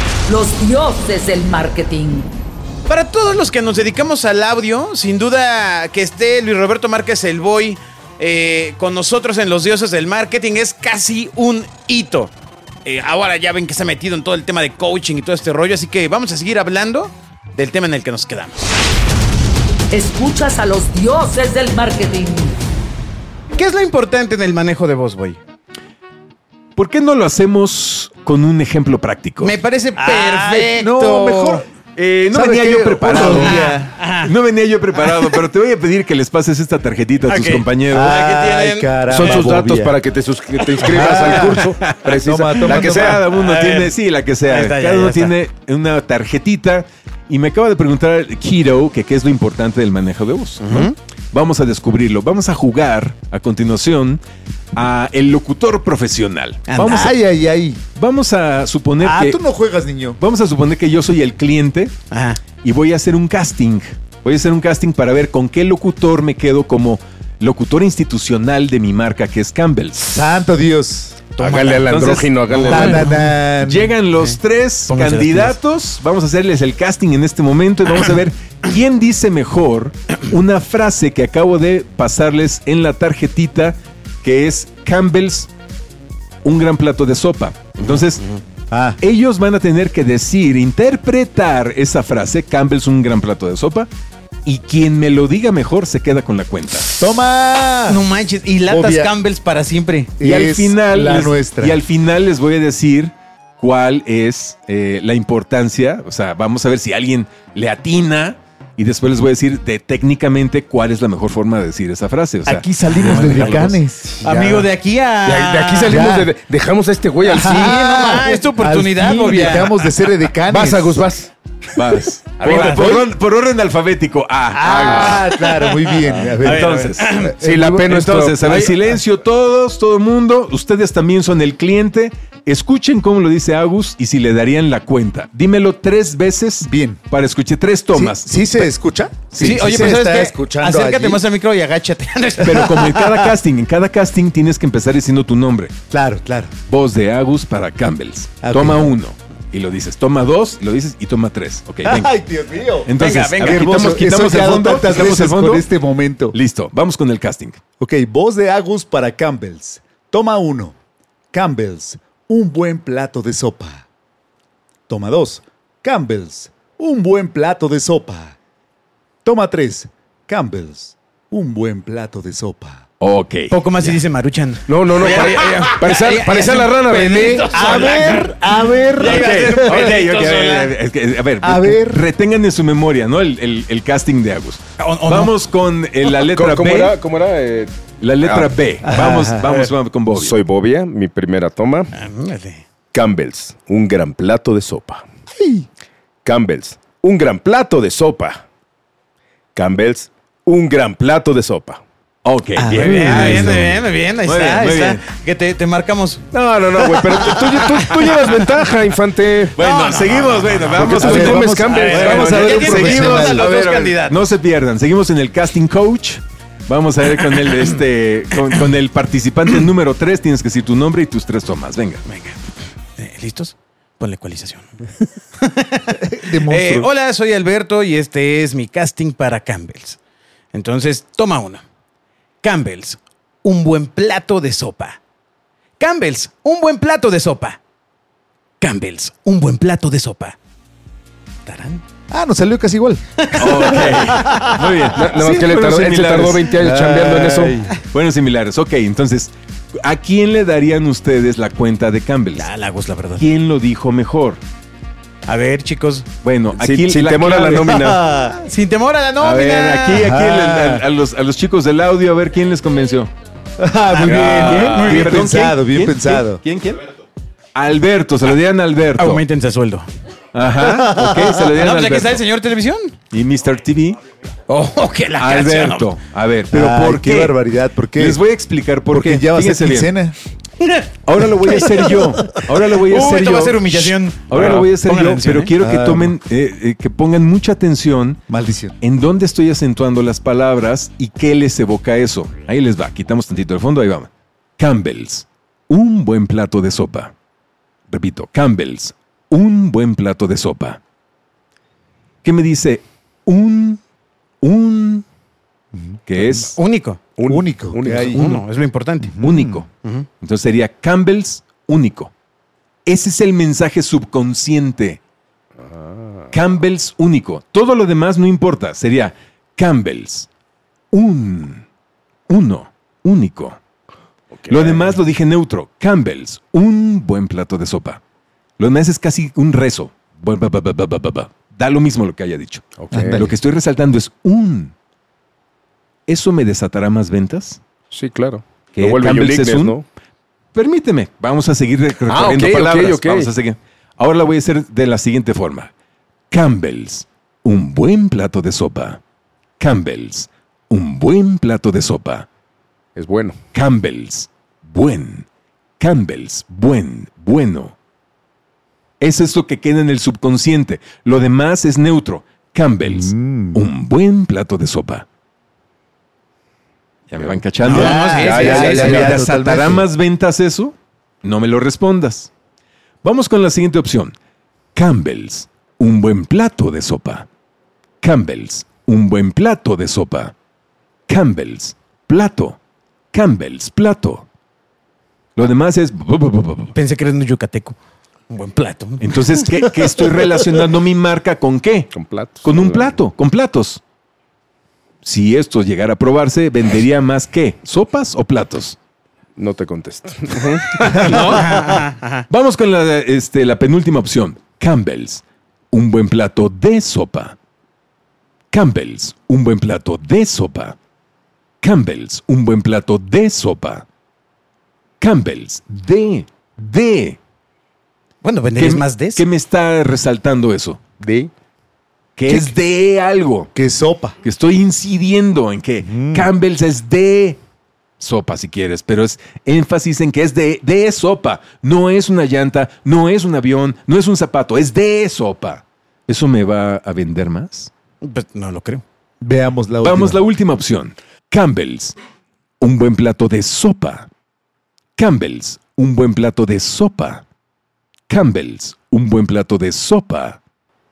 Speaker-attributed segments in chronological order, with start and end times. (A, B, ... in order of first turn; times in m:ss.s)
0:00.3-0:02.3 A
0:02.9-0:12.3 B
0:12.8-0:18.6 B
0:19.9-0:22.5 A
0:23.5-0:25.4 B
0:26.8-0:29.6 C
0:29.4-0:31.3 B
0:30.0-0:31.6 D
0:31.2-0:31.6 E
0:32.0-0:38.2 C
0:32.3-0:33.9 D
0:33.2-0:34.3 B
0:37.3-0:39.2 B
0:37.9-0:40.0 D
0:39.1-0:43.2 E
0:39.2-0:39.6 C
0:40.7-0:54.2 C
0:40.8-0:43.2 D
0:43.4-0:43.9 B
0:44.4-0:45.3 B
0:50.6-0:50.9 B
0:54.7-0:57.2 C
0:56.7-0:57.1 B
0:56.8-0:57.8 D
0:58.0-0:59.4 C
0:59.0-1:00.2 D
1:00.2-1:01.9 C
1:02.1-1:02.4 B
1:02.6-1:10.2 C
1:10.1-1:11.2 D
1:11.4-1:13.1 E
1:11.4-1:13.3 B
1:11.4-1:25.5 C
1:12.6-1:13.9 D
1:14.9-1:15.5 B
1:26.4-1:28.2 C
1:28.7-1:29.0 D
1:29.0-1:33.9 C
1:34.4-1:36.9 C
1:37.0-1:38.0 D
1:37.9-1:40.1 B
1:38.7-1:39.1 D
1:40.2-1:41.8 D
1:40.2-1:53.8 C
1:52.4-1:54.2 D
1:52.8-1:53.7 B
1:54.2-1:54.7 E
1:54.2-1:56.0 B
1:55.2-1:57.8 E
1:55.8-1:56.3 D
1:57.3-2:01.0 D
1:57.3-1:59.8 B
2:00.4-2:01.3 E
2:01.7-2:05.2 C
2:02.4-2:03.0 E
2:02.4-2:02.9 B
2:04.5-2:08.0 D
2:04.8-2:07.3 B
2:06.2-2:07.1 C
2:07.4-2:08.6 E
2:07.8-2:18.7 C
2:08.5-2:08.7 B
2:16.6-2:17.0 D
2:17.9-2:21.2 D
2:19.3-2:20.0 C
2:19.4-2:22.9 B
2:22.4-2:25.7 C
2:22.8-2:23.2 D
2:25.9-2:26.5 D
2:26.7-2:32.1 C
2:28.4-2:28.9 D
2:31.8-2:36.4 D
2:32.8-2:35.6 C
2:33.0-2:33.9 B
2:36.3-2:37.6 C
2:37.8-2:40.7 D
2:41.3-2:43.8 D
2:44.9-2:48.4 D
2:49.2-2:52.8 D
2:53.0-2:53.6 C
2:53.5-3:00.7 B
2:54.7-2:57.5 E
2:57.2-3:00.0 D
2:59.0-3:07.0 C
3:01.4-3:02.1 D
3:04.8-3:05.3 B
3:06.2-3:08.5 E
3:08.0-3:10.4 C
3:08.8-3:09.5 D
3:10.1-3:11.9 E
3:11.9-3:12.6 B
3:12.9-3:15.0 E
3:15.3-3:15.7 D
3:16.2-3:18.4 E
3:19.5-3:21.8 E
3:22.2-3:25.0 C
3:22.6-3:26.2 B
3:22.7-3:23.6 D
3:26.3-3:29.6 E
3:27.4-3:27.9 C
3:29.5-3:42.0 C
3:29.6-3:30.7 B
3:30.7-3:32.7 E
3:30.8-3:33.5 D
3:31.6-3:34.3 B
3:42.0-3:42.4 B
3:43.0-3:44.8 B
3:45.4-3:50.0 B
3:46.0-3:46.9 D
3:50.5-3:51.6 B
3:52.4-3:55.0 B
3:55.8-3:57.6 B
3:58.6-4:00.4 B
4:01.4-4:01.8 B
4:02.1-4:04.5 D
4:03.2-4:04.5 B
4:03.4-4:06.5 C
4:04.9-4:07.6 E
4:06.6-4:07.7 D
4:07.9-4:12.5 C
4:12.3-4:13.2 B
4:13.2-4:14.4 C
4:15.3-4:16.1 B
4:16.2-4:18.0 C
4:16.5-4:18.0 E
4:18.1-4:18.4 D
4:18.3-4:20.0 B
4:19.2-4:23.1 C
4:19.9-4:20.8 D
4:23.6-4:26.4 D
4:23.9-4:25.3 B
4:24.1-4:24.8 E
4:24.1-4:26.9 C
4:27.5-4:29.2 C
4:29.0-4:29.9 B
4:30.3-4:32.2 C
4:30.7-4:31.4 D
4:31.5-4:33.0 B
4:33.1-4:34.0 C
4:34.5-4:35.9 B
4:35.2-4:37.4 C
4:36.5-4:38.2 D
4:38.0-4:39.9 C
4:38.9-4:40.2 D
4:40.6-4:40.8 B
4:41.0-4:48.2 C
4:41.4-4:45.5 B
4:45.6-4:46.2 D
4:48.3-4:48.8 D
4:48.8-4:57.1 C
4:57.9-5:00.8 C
5:02.2-5:03.8 C
5:04.4-5:05.0 C
5:06.1-5:06.6 C
5:06.5-5:07.0 B
5:07.2-5:08.2 E
5:07.2-5:08.3 D
5:08.1-5:09.2 B
5:09.0-5:09.6 D
5:09.2-5:09.7 C
5:10.2-5:12.1 C
5:12.8-5:15.0 C
5:15.6-5:16.2 E
5:16.3-5:20.3 C
5:20.9-5:21.6 C
5:22.3-5:23.6 C
5:24.3-5:25.0 E
5:24.5-5:28.0 C
5:28.6-5:34.7 C
5:32.8-5:33.3 E
5:32.9-5:33.3 D
5:36.1-5:37.6 C
5:37.9-5:39.8 E
5:38.7-5:39.8 C
5:40.5-5:45.7 C
5:42.1-5:43.3 E
5:46.3-5:49.0 C
5:49.6-5:52.2 C
5:53.0-5:53.4 E
5:53.5-5:55.3 C
5:55.8-5:57.7 C
5:59.0-6:05.0 C
6:02.8-6:03.6 D
6:07.1-6:12.3 C
6:07.2-6:09.2 E
6:07.6-6:08.9 B
6:07.6-6:09.9 D
6:13.0-6:14.1 C
6:14.7-6:17.3 C
6:18.0-6:20.3 C
6:21.1-6:22.6 C
6:23.1-6:24.2 C
6:25.4-6:26.7 C
6:26.7-6:27.8 B
6:28.3-6:30.1 B
6:29.0-6:33.8 C
6:31.9-6:32.9 E
6:35.0-6:38.8 C
6:39.4-6:41.1 E
6:40.8-6:47.4 C
6:41.0-6:42.2 B
6:48.5-6:50.8 C
6:51.6-6:53.8 C
6:55.0-6:57.2 C
6:58.2-6:59.2 B
6:58.6-7:00.8 C
7:01.0-7:01.3 E
7:02.2-7:03.5 C
7:02.3-7:02.5 D
7:03.5-7:04.2 D
7:04.2-7:07.4 C
7:05.8-7:06.3 D
7:08.0-7:17.7 C
7:18.0-7:18.8 B
7:19.2-7:20.2 D
7:19.8-7:21.9 C
7:22.6-7:24.1 C
7:25.0-7:27.2 C
7:28.1-7:30.4 C